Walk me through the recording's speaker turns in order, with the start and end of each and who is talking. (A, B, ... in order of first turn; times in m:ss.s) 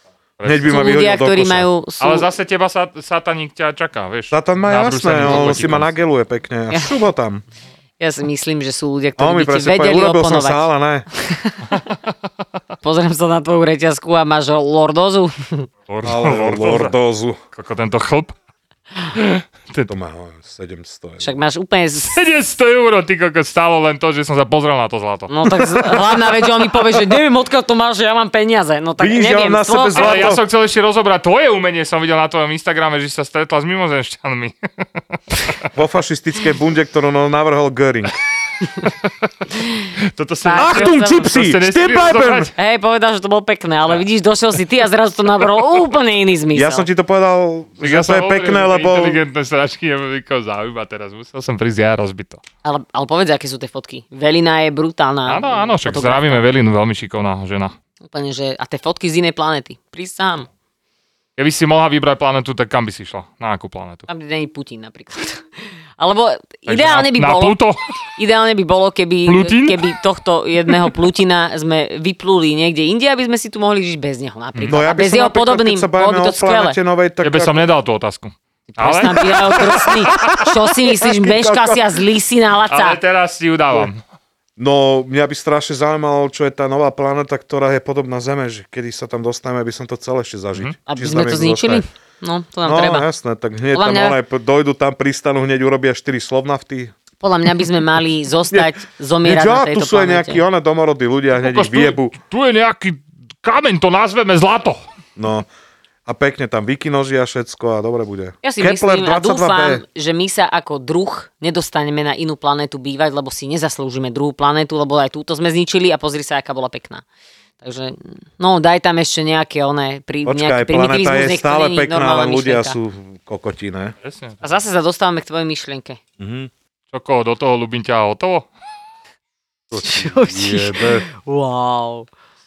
0:00.4-0:00.9 A
0:00.4-0:01.7 B
0:00.7-0:02.3 C
0:02.0-0:05.9 A
0:04.3-0:07.4 B
0:08.0-0:11.8 C
0:09.2-0:11.1 B
0:12.8-0:15.7 C
0:15.9-0:16.9 A
0:16.0-0:17.4 B
0:17.5-0:18.3 A
0:19.1-0:19.9 A
0:19.9-0:21.4 B
0:21.2-0:22.2 C
0:22.1-0:26.0 A
0:25.3-0:30.3 C
0:29.0-0:30.4 B
0:29.9-0:34.5 A
0:35.1-0:35.6 A
0:35.7-0:38.2 B
0:40.0-0:42.5 A
0:40.4-0:41.2 C
0:40.5-0:42.5 B
0:42.6-0:46.9 C
0:46.5-0:49.2 B
0:47.8-0:52.4 A
0:52.6-0:56.4 C
0:55.3-0:57.7 A
0:58.1-1:00.5 C
1:01.4-1:04.1 A
1:04.1-1:05.5 C
1:06.0-1:07.6 C
1:06.7-1:07.8 A
1:08.2-1:16.8 C
1:09.2-1:10.0 A
1:14.6-1:17.6 B
1:17.2-1:20.4 A
1:18.7-1:23.0 C
1:21.0-1:21.8 B
1:22.7-1:24.0 A
1:24.6-1:31.8 B
1:30.9-1:33.1 C
1:32.6-1:37.0 B
1:33.7-1:34.2 C
1:37.2-1:40.4 C
1:39.2-1:42.1 B
1:41.3-1:44.8 A
1:45.2-1:45.5 B
1:46.0-1:49.8 B
1:48.4-1:57.0 C
1:57.6-2:02.8 C
2:00.2-2:03.9 B
2:04.0-2:04.4 A
2:04.4-2:06.0 C
2:06.2-2:06.5 B
2:06.9-2:08.5 A
2:09.7-2:11.0 B
2:09.8-2:12.1 C